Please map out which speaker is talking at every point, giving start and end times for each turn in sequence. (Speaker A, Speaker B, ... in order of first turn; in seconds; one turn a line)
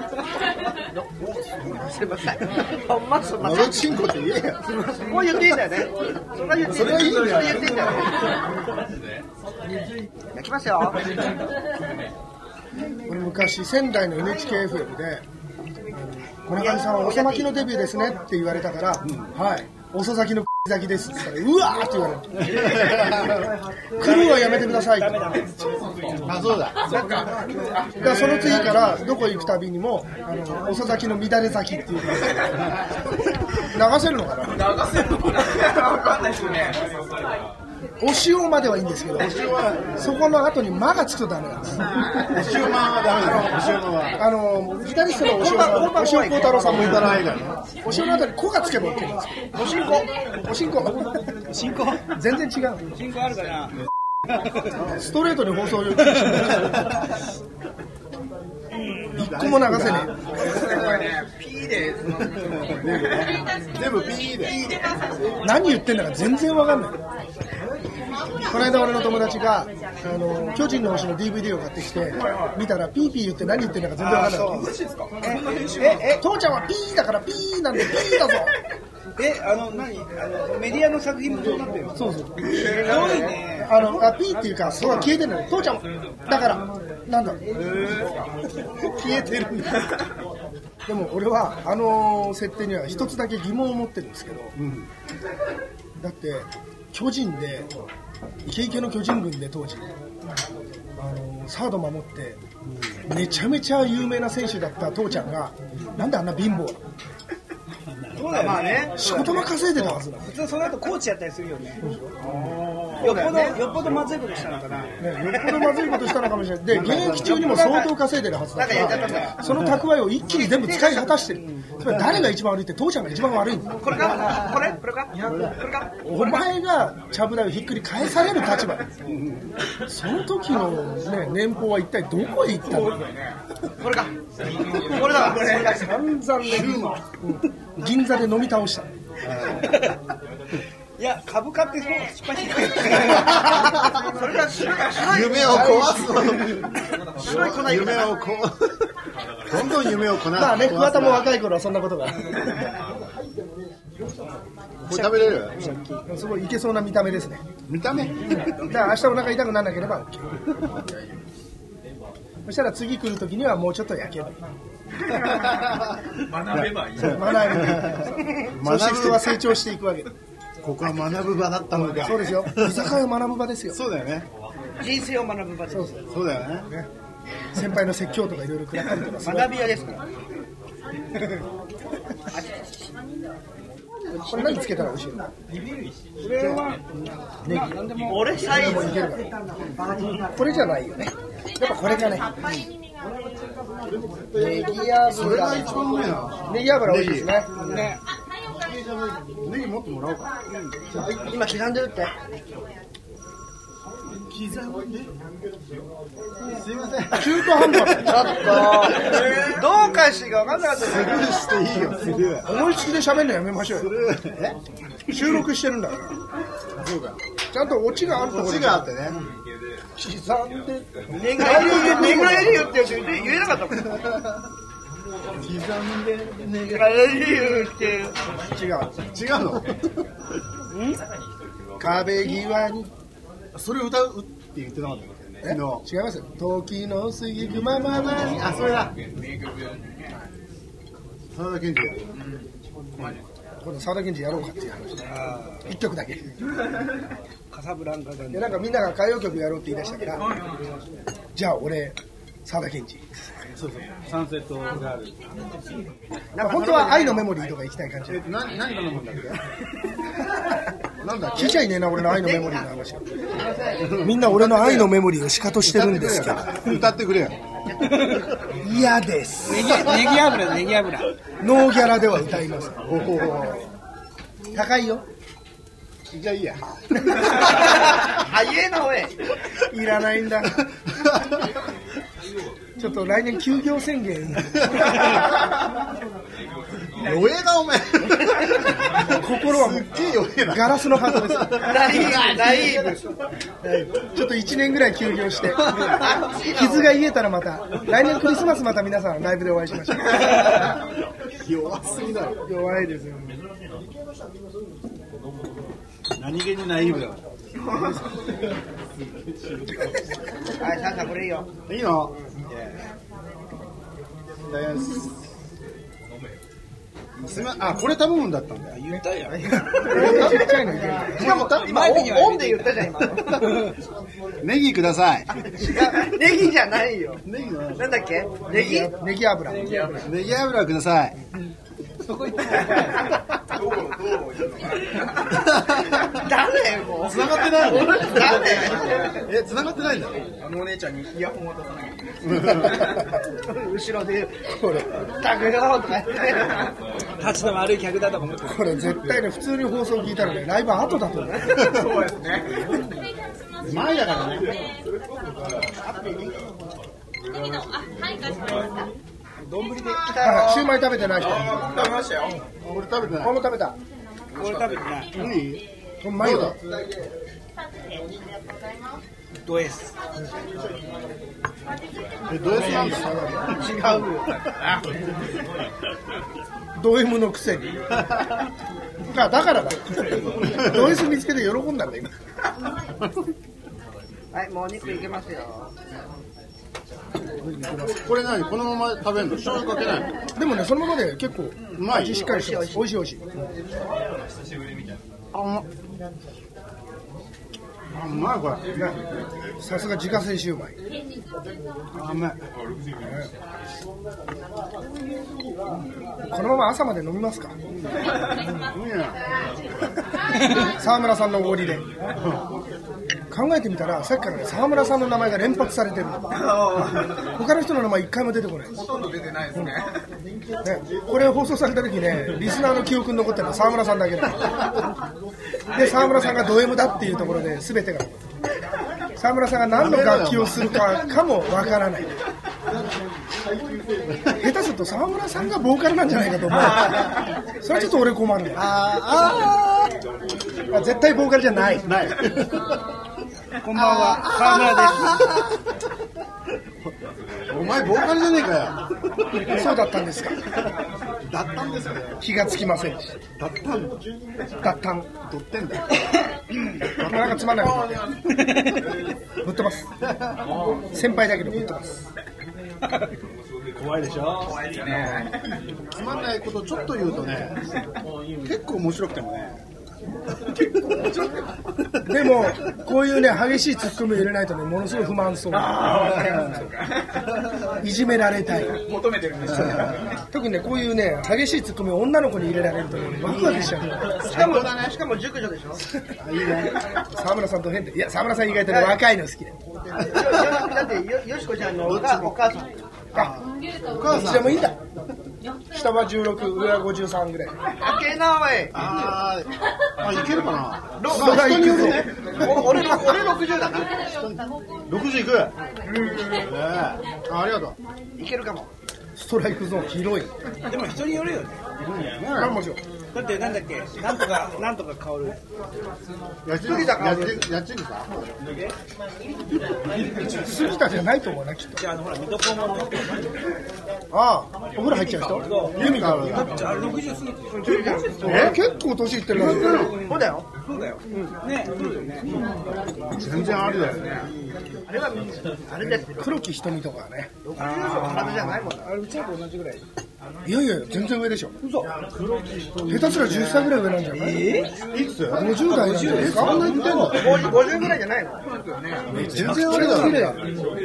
Speaker A: 0.9-4.0
Speaker B: 3.4-4.7
Speaker A: 4.7-8.3
Speaker B: 6.6-8.0
Speaker A: 10.3-11.2
Speaker C: 13.1-15.2
Speaker C: 15.9-23.1
Speaker A: 16.5-17.5
Speaker B: 19.0-19.3
Speaker B: 22.4-23.5
Speaker C: 24.0-25.3
Speaker D: 24.0-25.7
Speaker B: 26.2-26.9
Speaker E: 26.8-28.6
Speaker C: 28.0-32.5
Speaker C: 33.7-34.8
Speaker E: 34.5-36.9
Speaker C: 38.0-39.4
Speaker B: 39.1-40.1
Speaker C: 40.0-41.9
Speaker B: 42.3-44.2
Speaker C: 44.1-47.2
Speaker A: 45.2-47.1
Speaker B: 46.7-47.6
Speaker C: 47.8-49.6
Speaker A: 49.5-50.1
Speaker C: 50.4-51.2
Speaker D: 51.5-52.0
Speaker C: 52.1-52.8
Speaker D: 52.9-53.8
Speaker B: 54.8-55.1
Speaker C: 54.9-56.8
Speaker D: 56.1-56.5
Speaker D: 58.7-59.1
Speaker C: 59.2-60.8
Speaker B: 59.2-61.0
Speaker E: 60.4-63.4
Speaker B: 62.2-64.7
Speaker F: 63.1-65.6
Speaker E: 64.4-65.4
Speaker C: 65.4-67.0
Speaker C: 68.5-74.7
Speaker E: 72.1-72.6
Speaker D: 74.0-76.2
Speaker E: 74.0-76.0
Speaker C: 76.1-78.5
Speaker D: 79.2-84.0
Speaker C: 81.9-82.4
Speaker E: 82.4-83.2
Speaker A: 82.5-83.4
Speaker C: 83.6-87.4
Speaker B: 88.8-89.8
Speaker C: 90.8-94.5
Speaker B: 94.5-94.9
Speaker C: 96.0-97.7
Speaker C: 98.4-99.9
Speaker C: 101.0-102.4
Speaker B: 102.6-103.0
Speaker C: 103.0-106.8
Speaker B: 108.0-108.4
Speaker D: 108.1-109.2
Speaker A: 108.3-109.5
Speaker C: 109.0-110.3
Speaker D: 109.8-111.8
Speaker E: 112.2-113.2
Speaker D: 113.0-115.0
Speaker A: 113.0-113.6
Speaker C: 115.0-123.8
Speaker A: 115.3-115.7
Speaker B: 116.7-117.6
Speaker D: 117.2-117.9
Speaker A: 118.5-119.4
Speaker B: 118.7-119.8
Speaker A: 120.4-121.1
Speaker D: 121.2-121.7
Speaker A: 123.8-125.9
Speaker B: 125.3-125.5
Speaker C: 126.0-128.9
Speaker B: 129.1-129.6
Speaker C: 129.9-133.0
Speaker E: 132.7-133.4
Speaker A: 133.8-134.1
Speaker E: 134.4-135.7
Speaker A: 134.7-135.9
Speaker C: 135.5-138.9
Speaker B: 136.4-137.1
Speaker B: 139.2-139.7
Speaker D: 141.0-143.6
Speaker A: 144.0-146.0
Speaker B: 144.9-146.7
Speaker C: 145.5-146.4
Speaker A: 147.2-148.2
Speaker B: 147.2-148.8
Speaker B: 149.4-151.3
Speaker C: 150.3-152.5
Speaker B: 154.8-155.6
Speaker D: 154.9-156.0
Speaker C: 156.1-157.4
Speaker B: 157.7-158.7
Speaker C: 158.6-160.3
Speaker B: 160.6-161.0
Speaker C: 162.4-164.4
Speaker E: 166.2-167.6
Speaker B: 166.4-169.4
Speaker C: 166.9-170.1
Speaker B: 170.6-172.9
Speaker C: 171.7-173.8
Speaker B: 173.7-174.3
Speaker A: 174.8-176.0
Speaker C: 175.7-176.0
Speaker B: 176.1-176.7
Speaker C: 177.5-179.6
Speaker A: 179.2-180.0
Speaker C: 184.1-185.3
Speaker D: 186.2-188.4
Speaker C: 187.4-187.8
Speaker A: 188.0-189.1
Speaker C: 188.4-189.3
Speaker C: 190.3-192.3
Speaker F: 191.6-193.3
Speaker C: 194.3-195.8
Speaker B: 195.0-197.3
Speaker C: 196.4-197.6
Speaker D: 197.6-198.0
Speaker F: 198.6-199.1
Speaker B: 199.4-200.3
Speaker D: 200.5-200.8
Speaker A: 201.2-202.1
Speaker B: 204.2-205.1
Speaker B: 206.5-208.3
Speaker C: 207.1-208.6
Speaker A: 208.0-211.5
Speaker B: 210.7-212.5
Speaker C: 212.4-213.9
Speaker B: 213.7-214.6
Speaker C: 215.1-216.2
Speaker B: 216.8-217.2
Speaker C: 217.5-219.0
Speaker B: 218.2-219.2
Speaker C: 220.0-222.7
Speaker A: 221.1-224.0
Speaker B: 221.5-222.7
Speaker B: 225.4-227.2
Speaker A: 226.6-228.2
Speaker C: 228.5-228.9
Speaker B: 229.1-230.0
Speaker D: 230.7-231.0
Speaker C: 231.8-232.9
Speaker B: 233.5-235.8
Speaker C: 235.4-238.4
Speaker B: 237.9-238.9
Speaker E: 238.8-240.2
Speaker B: 241.3-242.1
Speaker E: 242.1-243.2
Speaker C: 243.6-245.1
Speaker D: 245.1-245.7
Speaker C: 245.6-246.3
Speaker D: 247.5-248.6
Speaker C: 248.3-250.2
Speaker E: 250.2-250.8
Speaker C: 251.3-253.3
Speaker B: 253.5-255.2
Speaker A: 256.3-257.5
Speaker C: 256.4-258.2
Speaker B: 258.1-259.5
Speaker B: 261.0-261.6
Speaker C: 261.3-263.0
Speaker A: 262.1-262.7
Speaker A: 263.3-263.9
Speaker B: 263.8-265.0
Speaker C: 264.0-266.7
Speaker B: 265.6-267.9
Speaker D: 267.8-268.3
Speaker C: 268.6-269.9
Speaker D: 269.4-271.1
Speaker C: 271.4-272.9
Speaker B: 272.8-273.6
Speaker C: 274.5-275.0
Speaker B: 276.1-277.3
Speaker A: 277.4-279.2
Speaker C: 279.7-280.6
Speaker B: 281.0-281.4
Speaker C: 282.8-285.0
Speaker B: 287.0-288.6
Speaker C: 289.1-292.1
Speaker B: 289.2-292.9
Speaker A: 291.6-293.0
Speaker C: 294.1-300.4
Speaker A: 295.7-296.9
Speaker B: 301.4-302.4
Speaker C: 302.4-303.4
Speaker B: 306.1-307.2
Speaker A: 310.6-311.5
Speaker B: 311.7-312.9
Speaker B: 314.5-315.1
Speaker B: 317.2-318.8
Speaker D: 318.7-320.0
Speaker A: 319.8-323.6
Speaker C: 319.9-321.2
Speaker B: 320.0-320.4
Speaker B: 321.1-321.7
Speaker D: 321.3-322.8
Speaker B: 324.4-325.3
Speaker A: 325.5-327.2
Speaker B: 327.2-327.9
Speaker A: 327.8-328.9
Speaker C: 328.5-329.8
Speaker E: 329.6-330.1
Speaker B: 330.0-331.2
Speaker D: 332.0-333.0
Speaker E: 333.5-335.5
Speaker B: 335.6-335.9
Speaker A: 336.1-339.2
Speaker B: 337.0-338.6
Speaker E: 338.6-339.1
Speaker B: 339.2-340.3
Speaker E: 340.4-342.6
Speaker B: 342.2-342.8
Speaker A: 343.4-344.4
Speaker C: 344.5-344.9
Speaker A: 345.2-346.7
Speaker D: 347.2-348.8
Speaker C: 348.4-351.6
Speaker E: 351.6-352.7
Speaker F: 353.3-354.6
Speaker B: 353.6-354.5
Speaker A: 355.8-356.5
Speaker F: 357.3-358.9
Speaker D: 359.4-360.2
Speaker F: 359.6-360.2
Speaker A: 360.1-360.6
Speaker C: 360.2-361.8
Speaker E: 360.2-362.4
Speaker B: 362.6-363.4
Speaker C: 363.2-363.8
Speaker D: 364.3-365.4
Speaker E: 364.4-364.8
Speaker B: 365.1-365.6
Speaker C: 366.0-366.6
Speaker B: 366.1-366.6
Speaker F: 367.6-369.0
Speaker D: 369.4-369.9
Speaker B: 372.3-373.9
Speaker C: 372.8-373.4
Speaker A: 373.5-374.4
Speaker C: 376.8-377.8
Speaker C: 379.1-382.1
Speaker A: 384.3-385.7
Speaker B: 387.4-390.1
Speaker C: 390.4-393.2
Speaker B: 391.7-392.3
Speaker A: 392.0-392.9
Speaker B: 395.3-395.6
Speaker B: 397.9-398.9
Speaker C: 399.6-400.8
Speaker B: 401.9-402.4
Speaker C: 403.0-403.3
Speaker C: 406.2-407.5
Speaker B: 408.7-409.2
Speaker C: 410.6-411.9
Speaker B: 412.1-412.4
Speaker C: 413.3-416.3
Speaker E: 416.3-417.1
Speaker C: 417.4-418.7
Speaker E: 418.7-419.9
Speaker C: 420.6-424.5
Speaker C: 425.7-428.2
Speaker E: 425.7-426.5
Speaker C: 429.2-432.1
Speaker B: 429.8-431.0
Speaker C: 434.4-438.8
Speaker B: 438.5-439.9
Speaker C: 440.7-441.9
Speaker B: 441.8-442.8
Speaker D: 443.6-445.4
Speaker B: 443.7-445.4
Speaker B: 447.5-448.8
Speaker C: 449.5-450.4
Speaker B: 451.3-452.2
Speaker C: 452.2-453.2
Speaker B: 453.4-454.0
Speaker C: 454.6-455.1
Speaker B: 455.2-455.9
Speaker C: 457.0-458.0
Speaker B: 457.0-457.7
Speaker E: 457.8-458.2
Speaker D: 458.3-458.9
Speaker C: 459.4-459.9
Speaker C: 460.9-462.0
Speaker B: 463.8-465.4
Speaker E: 464.4-465.5
Speaker B: 465.9-467.6
Speaker B: 468.4-469.6
Speaker C: 472.1-475.9
Speaker E: 475.5-477.3
Speaker C: 477.8-478.8
Speaker E: 478.6-480.2
Speaker C: 480.3-484.2
Speaker B: 483.2-484.7
Speaker A: 484.2-485.8
Speaker B: 486.2-486.8
Speaker C: 487.1-489.5
Speaker A: 488.7-489.0
Speaker A: 489.9-492.7
Speaker B: 490.1-490.7
Speaker B: 491.8-492.3
Speaker B: 493.1-493.4
Speaker B: 493.9-494.7
Speaker C: 494.1-494.8
Speaker C: 495.7-497.5
Speaker A: 497.8-499.1
Speaker B: 498.7-503.1
Speaker A: 501.0-503.9
Speaker C: 501.1-502.1
Speaker B: 503.7-505.5
Speaker B: 506.1-507.8
Speaker A: 508.2-508.7
Speaker C: 509.1-510.3
Speaker D: 510.7-511.6
Speaker B: 511.8-512.6
Speaker C: 512.3-512.8
Speaker D: 513.1-515.4
Speaker B: 516.4-518.2
Speaker A: 516.6-517.5
Speaker C: 520.2-521.8
Speaker D: 521.8-523.1
Speaker C: 524.1-526.5
Speaker D: 525.2-528.4
Speaker B: 525.7-526.6
Speaker A: 527.5-528.6
Speaker B: 528.2-528.6
Speaker C: 528.2-529.9
Speaker B: 529.3-530.0
Speaker D: 529.4-532.4
Speaker A: 529.9-530.5
Speaker B: 533.1-534.2
Speaker D: 533.3-534.3
Speaker A: 534.9-536.3
Speaker C: 535.8-537.3
Speaker A: 537.4-538.9
Speaker D: 537.5-539.8
Speaker C: 540.4-541.6
Speaker B: 541.8-543.8
Speaker C: 542.9-544.5
Speaker D: 544.1-544.8
Speaker B: 544.9-547.6
Speaker C: 545.3-546.7
Speaker D: 545.5-547.4
Speaker A: 546.9-548.4
Speaker E: 548.4-549.1
Speaker B: 549.1-550.5
Speaker C: 549.2-550.4